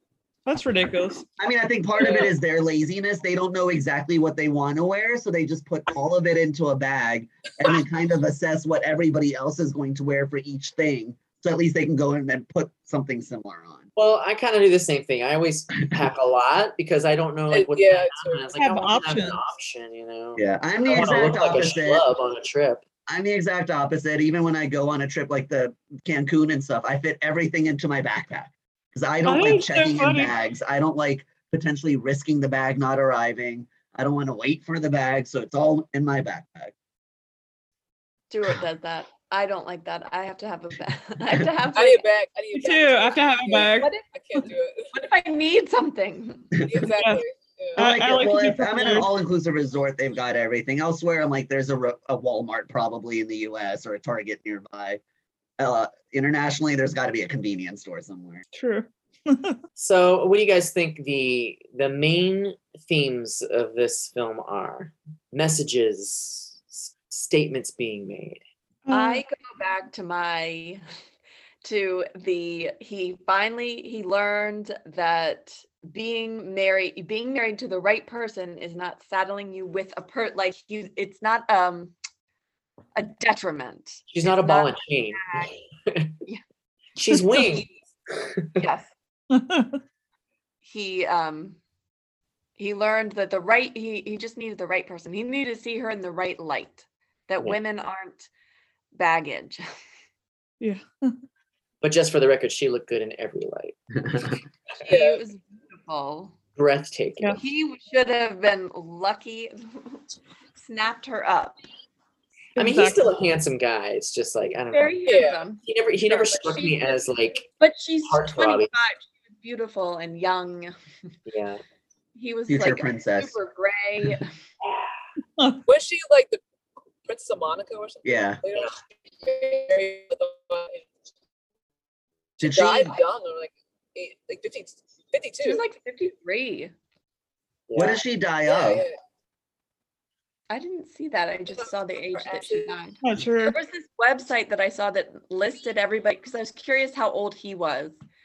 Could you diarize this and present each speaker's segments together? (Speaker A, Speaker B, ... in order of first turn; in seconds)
Speaker A: 0.5-1.2, 18.6-19.4, 29.3-30.3, 42.5-44.5, 47.8-49.1, 58.5-59.6, 68.9-69.2, 89.3-89.8, 100.6-101.2, 112.6-113.1, 125.4-125.6, 143.0-143.6
Speaker B: 1.4-13.9, 20.4-22.1, 23.1-36.7, 47.8-55.0, 55.6-58.5, 122.5-123.4, 128.0-128.4, 132.4-132.9, 137.8-138.8
Speaker C: 2.0-2.3, 17.5-18.4, 41.7-44.9, 46.6-47.8, 104.8-105.2, 115.1-115.4, 125.7-126.4, 127.0-130.9, 132.4-135.6, 138.5-139.0, 141.5-142.8
Speaker D: 14.0-22.8, 59.8-68.4, 84.1-86.1, 87.0-88.6, 101.8-104.4, 106.6-107.4, 112.6-115.0, 115.6-117.5, 118.0-118.7, 121.3-121.6, 124.6-124.9, 137.7-138.0
Speaker E: 38.3-42.0, 43.8-44.1, 44.9-46.5, 68.9-70.8, 71.6-82.0, 83.0-85.5, 87.1-87.7, 88.6-88.9, 90.6-91.6, 92.6-98.3, 98.9-99.6, 104.9-106.4, 107.4-110.0, 110.6-111.6, 114.7-116.8, 117.6-120.8, 122.2-124.3, 135.4-136.7, 140.5-148.0